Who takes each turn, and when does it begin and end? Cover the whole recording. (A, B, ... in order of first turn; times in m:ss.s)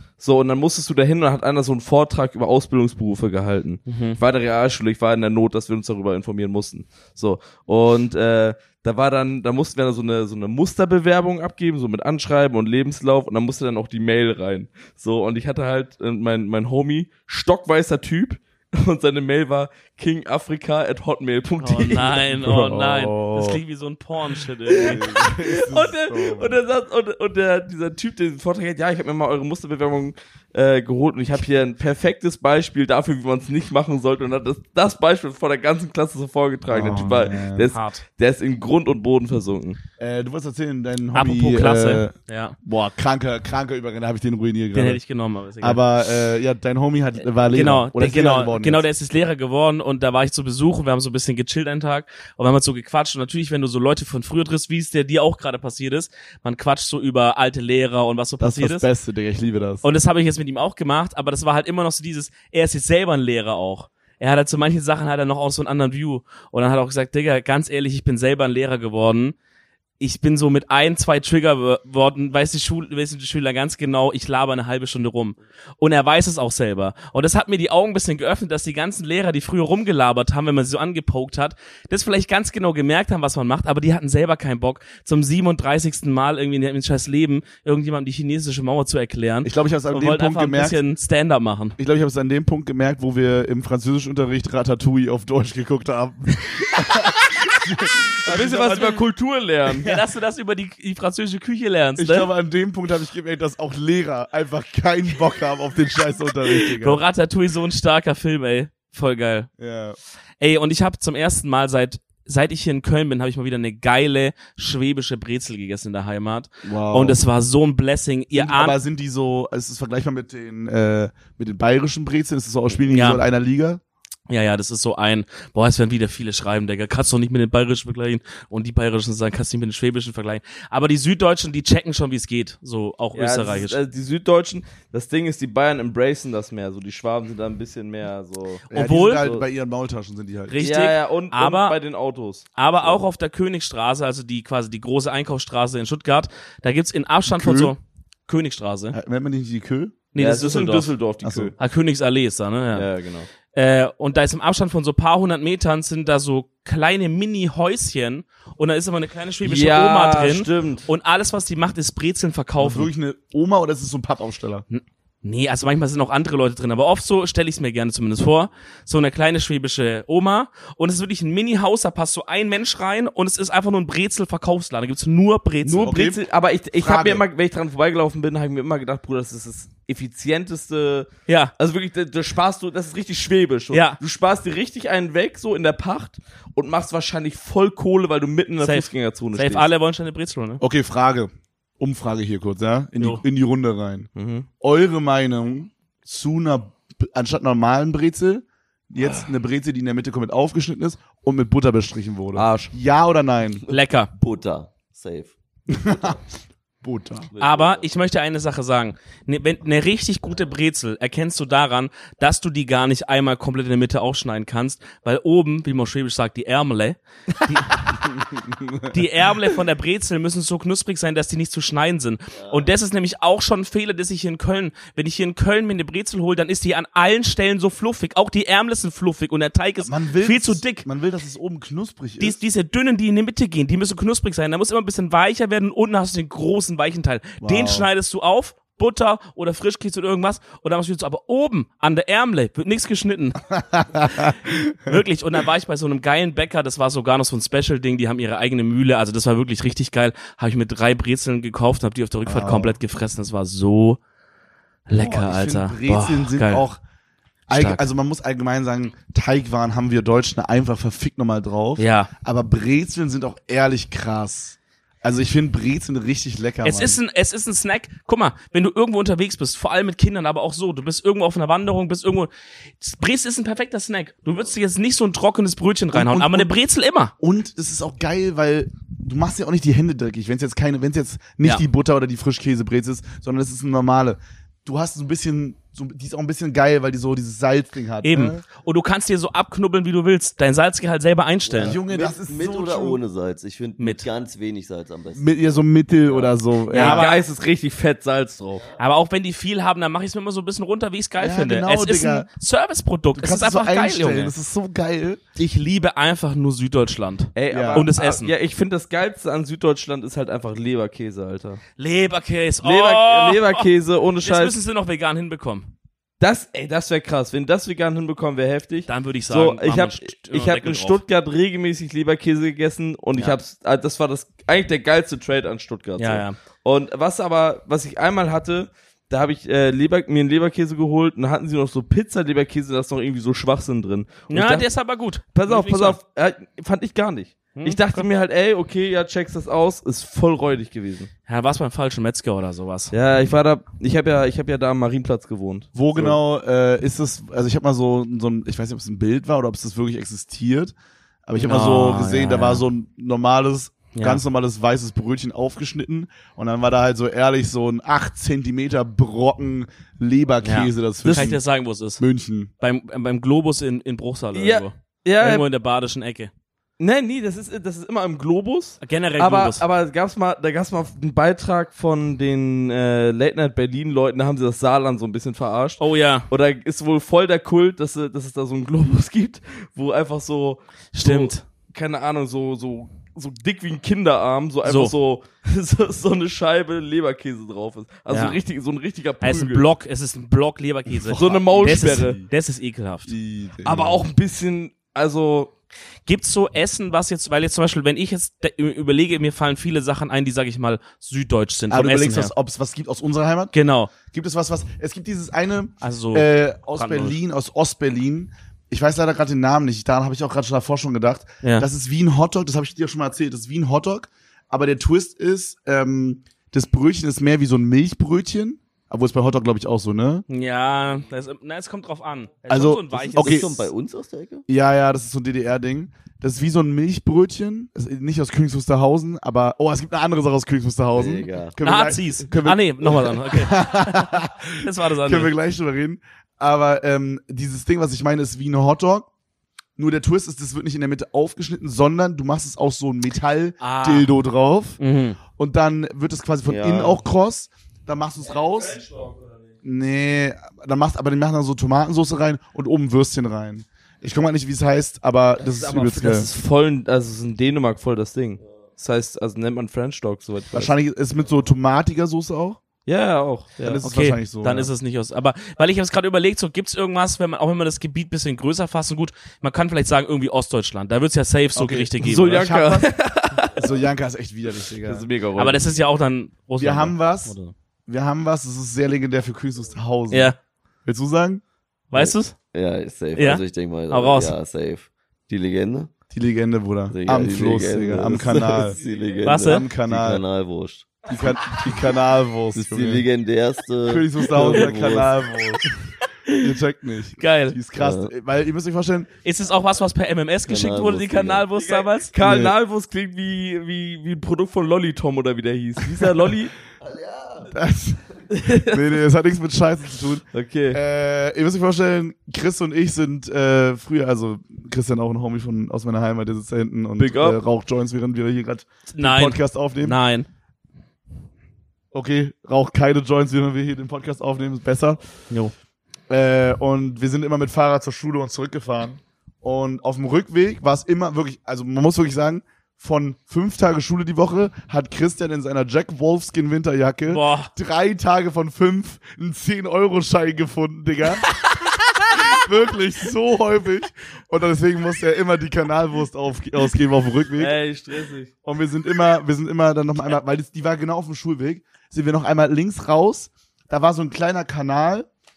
0:00.2-0:22.3 A
0:03.9-0:04.2 B
0:21.6-0:25.0 B
0:22.4-0:23.6 C
0:24.7-0:39.8 A
0:24.7-0:26.6 C
0:36.7-0:37.7 C
0:36.9-0:38.0 B
0:40.0-0:45.0 C
0:41.1-0:42.6 B
0:44.7-0:45.8 B
0:45.6-0:48.8 C
0:47.5-0:58.9 B
0:58.4-0:59.8 C
0:59.8-1:09.4 B
1:10.0-1:31.8 B
1:29.4-1:30.8 C
1:31.8-1:39.0 C
1:38.3-1:39.9 A
1:39.8-1:42.3 B
1:42.0-1:47.0 C
1:46.6-1:49.5 B
1:49.6-1:50.0 C
1:50.4-1:58.8 B
1:56.6-1:57.2 C
1:58.3-2:03.8 C
2:02.9-2:03.2 B
2:04.3-2:13.8 B
2:13.2-2:18.7 A
2:18.7-2:19.4 B
2:18.7-2:20.6 C
2:20.5-2:21.8 B
2:20.6-2:23.0 A
2:22.6-2:29.0 B
2:27.3-2:27.7 C
2:28.9-2:29.9 C
2:30.1-2:30.9 B
2:30.2-2:31.5 A
2:31.2-2:31.5 C
2:31.6-2:32.9 B
2:32.7-2:33.3 A
2:33.5-2:42.9 B
2:39.4-2:40.9 A
2:42.6-2:44.6 C
2:44.7-2:56.0 B
2:55.7-3:09.7 A
2:55.8-2:56.2 C
2:56.8-2:57.2 C
3:01.3-3:01.5 B
3:03.7-3:04.0 B
3:08.6-3:10.6 B
3:10.6-3:14.1 C
3:14.2-3:14.5 A
3:14.6-3:23.6 C
3:22.3-3:22.7 A
3:23.7-3:26.2 D
3:23.7-3:24.1 B
3:25.7-3:26.2 C
3:26.8-3:27.3 C
3:27.3-3:27.9 D
3:27.4-3:38.1 B
3:38.9-3:50.9 B
3:42.3-3:42.7 D
3:49.8-3:52.4 C
3:52.2-4:03.4 B
3:57.4-3:57.9 C
4:03.7-4:05.0 C
4:04.9-4:14.0 B
4:12.3-4:12.8 C
4:14.9-4:16.6 B
4:14.9-4:16.8 C
4:17.5-4:27.0 C
4:17.5-4:17.8 B
4:21.8-4:22.1 B
4:26.6-4:32.3 B
4:32.8-4:37.1 B
4:35.9-4:36.5 C
4:37.2-4:48.4 C
4:48.0-4:51.8 B
4:51.5-4:55.5 D
4:51.6-4:53.0 C
4:53.8-4:54.1 B
4:55.2-4:57.1 C
4:56.1-4:56.4 D
4:56.7-4:57.2 B
4:56.7-4:58.7 A
4:58.8-5:04.3 B
5:01.2-5:02.3 C
5:03.2-5:05.2 C
5:05.4-5:08.3 B
5:07.4-5:11.6 A
5:07.5-5:07.9 C
5:11.8-5:13.7 B
5:12.6-5:14.6 A
5:14.2-5:15.7 B
5:16.2-5:34.7 A
5:18.9-5:21.0 B
5:26.0-5:26.4 B
5:34.3-5:36.0 B
5:35.3-5:41.1 A
5:37.5-5:38.1 B
5:41.3-5:42.9 B
5:42.9-5:46.2 A
5:45.8-5:50.7 C
5:51.3-6:01.4 C
5:51.4-5:52.6 B
5:54.0-5:54.2 B
6:00.4-6:02.0 B
6:01.1-6:01.3 A
6:02.0-6:02.5 C
6:02.6-6:06.3 B
6:04.3-6:05.4 A
6:06.8-6:29.7 A
6:08.8-6:09.6 B
6:15.8-6:16.3 B
6:20.9-6:21.4 B
6:24.6-6:24.9 B
6:28.1-6:28.4 B
6:29.2-6:33.1 B
6:31.0-6:32.3 C
6:31.1-6:32.2 A
6:33.1-6:34.1 C
6:33.6-6:35.5 A
6:36.1-6:42.3 B
6:41.7-6:43.5 C
6:43.5-6:43.9 B
6:44.1-7:00.2 C
6:45.8-6:47.2 B
7:00.3-7:03.5 B
7:02.5-7:03.6 C
7:03.2-7:04.4 D
7:04.5-7:19.1 C
7:10.9-7:11.6 D
7:11.6-7:15.3 B
7:19.8-7:24.8 C
7:23.6-7:24.1 B
7:24.8-7:25.2 B
7:25.3-7:28.8 C
7:26.4-7:27.0 D
7:29.6-7:36.3 C
7:35.4-7:40.7 A
7:40.5-7:42.6 C
7:42.9-7:43.8 A
7:43.6-7:44.7 C
7:43.8-7:52.4 B
7:51.6-7:52.9 C
7:52.0-7:53.7 A
7:53.4-7:55.1 C
7:54.8-7:55.7 A
7:55.4-7:57.5 B
7:56.6-7:57.3 C
7:57.9-8:01.4 C
8:00.1-8:00.4 B
8:01.9-8:02.4 B
8:01.9-8:05.9 D
8:03.2-8:04.4 B
8:06.1-8:08.8 C
8:06.9-8:11.5 D
8:09.2-8:09.7 B
8:09.4-8:10.2 C
8:11.1-8:13.1 C
8:12.5-8:15.3 D
8:13.9-8:15.7 C
8:16.3-8:16.5 B
8:16.3-8:19.1 C
8:17.2-8:17.6 B
8:17.8-8:18.1 D
8:19.2-8:22.1 B
8:20.5-8:21.5 D
8:21.6-8:26.5 A
8:22.2-8:22.5 C
8:26.8-8:27.6 D
8:27.5-8:40.0 C
8:28.3-8:28.9 A
8:30.3-8:30.8 A
8:37.0-8:37.4 A
8:39.0-8:40.3 B
8:41.9-8:45.0 C
8:46.1-9:01.3 C
8:57.1-8:57.5 B
9:01.3-9:02.1 B
9:02.1-9:07.6 C
9:07.4-9:08.3 A
9:08.4-9:15.1 C